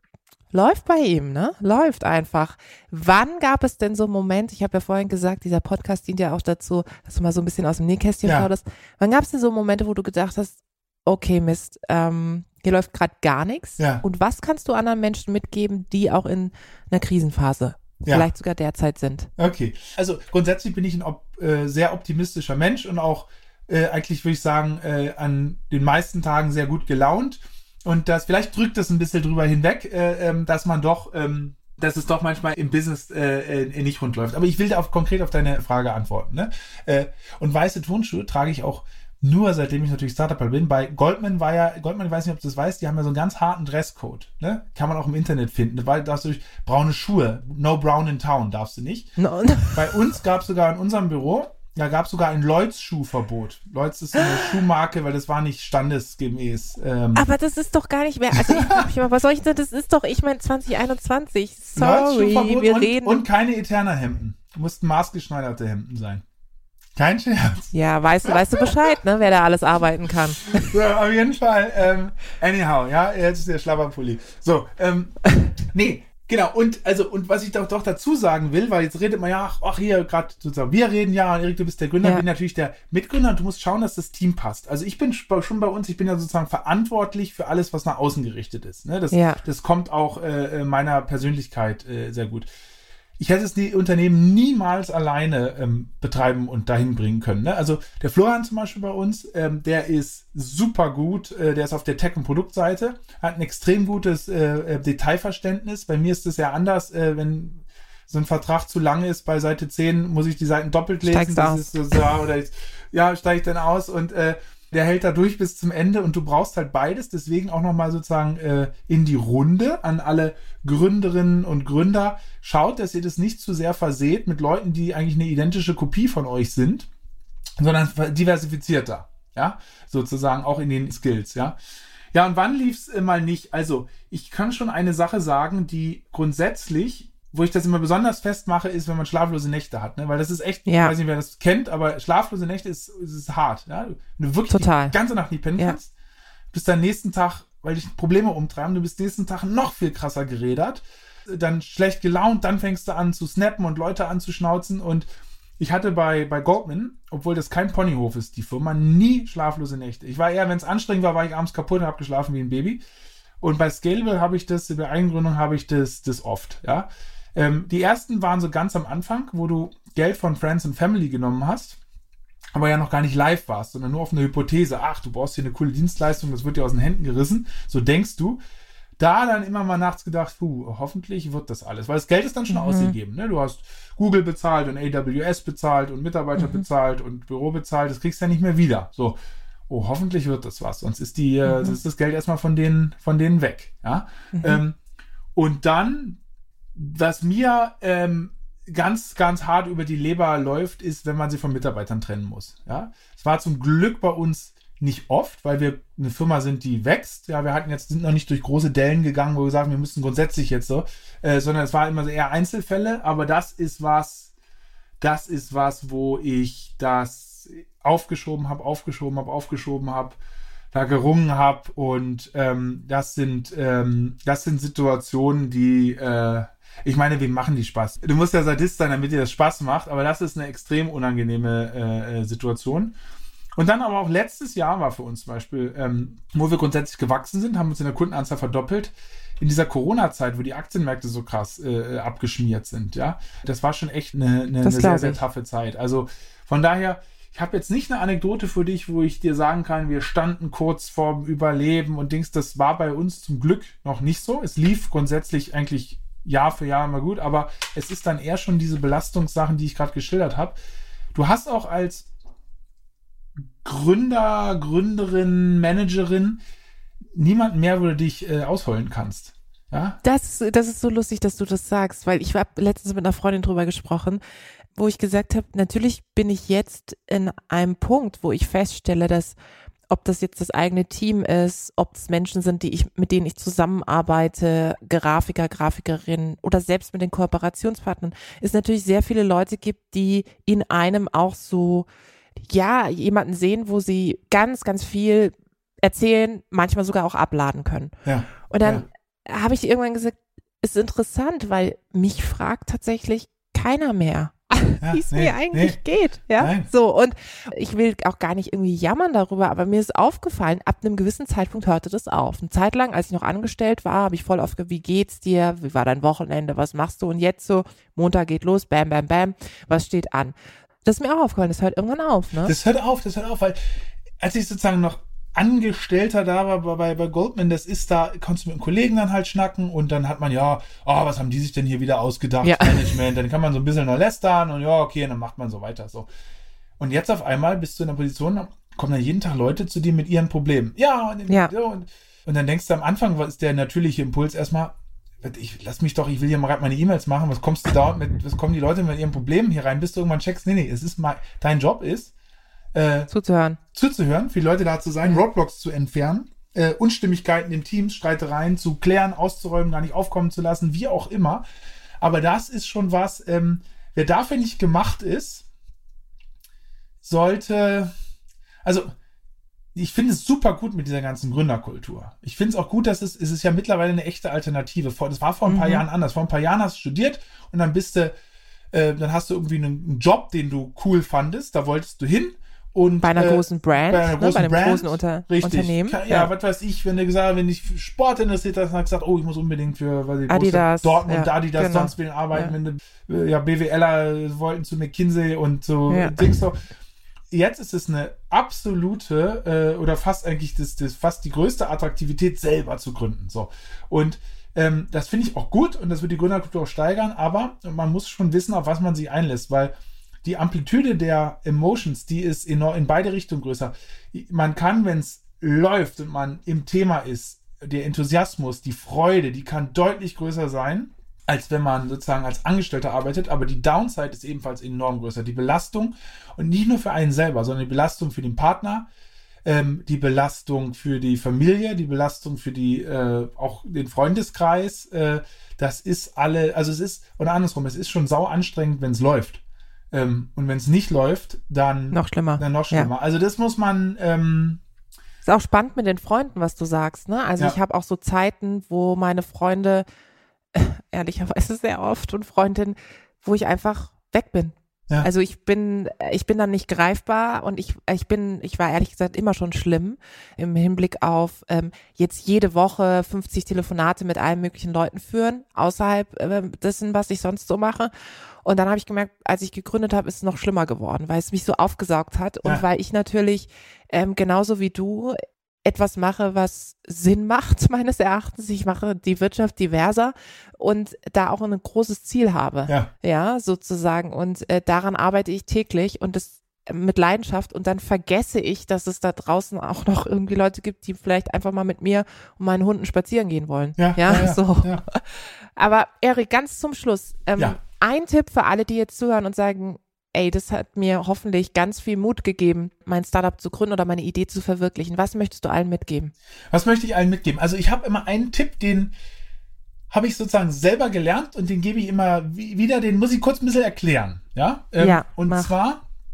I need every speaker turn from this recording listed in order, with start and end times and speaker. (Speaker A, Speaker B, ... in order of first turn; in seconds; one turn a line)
Speaker A: 0.5-19.3
Speaker B: 13.8-14.0
Speaker B: 19.4-49.1
Speaker A: 49.2-50.0
Speaker B: 49.7-57.3
Speaker A: 57.1-63.2
Speaker B: 58.4-58.9
Speaker B: 61.8-66.2
Speaker B: 67.0-67.7
Speaker A: 67.7-70.7
Speaker B: 68.2-68.9
Speaker B: 70.5-92.5
Speaker A: 89.1-89.4
Speaker B: 93.2-126.9
Speaker A: 111.0-112.0
Speaker B: 127.6-131.6
Speaker B: 132.1-145.9
Speaker A: 140.7-140.9
Speaker A: 144.5-145.0
Speaker B: 146.5-155.1
Speaker B: 155.6-162.8
Speaker B: 163.4-171.8
Speaker B: 172.6-178.4
Speaker B: 179.0-189.2
Speaker A: 182.5-182.9
Speaker A: 186.4-186.6
Speaker B: 189.7-194.8
Speaker A: 191.5-191.8
Speaker A: 194.3-194.6
Speaker B: 195.3-196.2
Speaker B: 196.8-214.3
Speaker B: 215.0-220.2
Speaker B: 220.7-233.0
Speaker B: 233.6-260.6
Speaker A: 244.6-245.2
Speaker B: 261.1-262.1
Speaker B: 263.6-266.4
Speaker B: 267.1-270.0
Speaker A: 270.0-274.2
Speaker A: 274.8-279.4
Speaker A: 279.9-291.9
Speaker A: 292.4-297.9
Speaker B: 298.1-298.9
Speaker A: 298.5-322.5
Speaker B: 304.8-305.8
Speaker B: 306.4-306.7
Speaker B: 322.4-323.6
Speaker B: 324.2-336.1
Speaker A: 332.4-332.9
Speaker B: 336.8-352.1
Speaker B: 352.7-353.1
Speaker A: 353.1-353.6
Speaker B: 353.7-361.4
Speaker B: 362.0-365.5
Speaker B: 367.0-367.9
Speaker B: 368.6-368.9
Speaker B: 369.8-378.1
Speaker A: 375.5-375.9
Speaker B: 378.7-396.6
Speaker A: 383.0-386.3
Speaker A: 390.3-392.5
Speaker A: 395.9-396.3
Speaker B: 397.3-428.9
Speaker B: 429.4-439.4
Speaker B: 439.9-444.6
Speaker A: 441.9-442.9
Speaker A: 445.2-449.9
Speaker A: 450.6-467.9
Speaker A: 468.4-506.1
Speaker B: 493.8-494.8
Speaker B: 506.5-508.9
Speaker B: 509.9-515.8
Speaker A: 514.8-515.5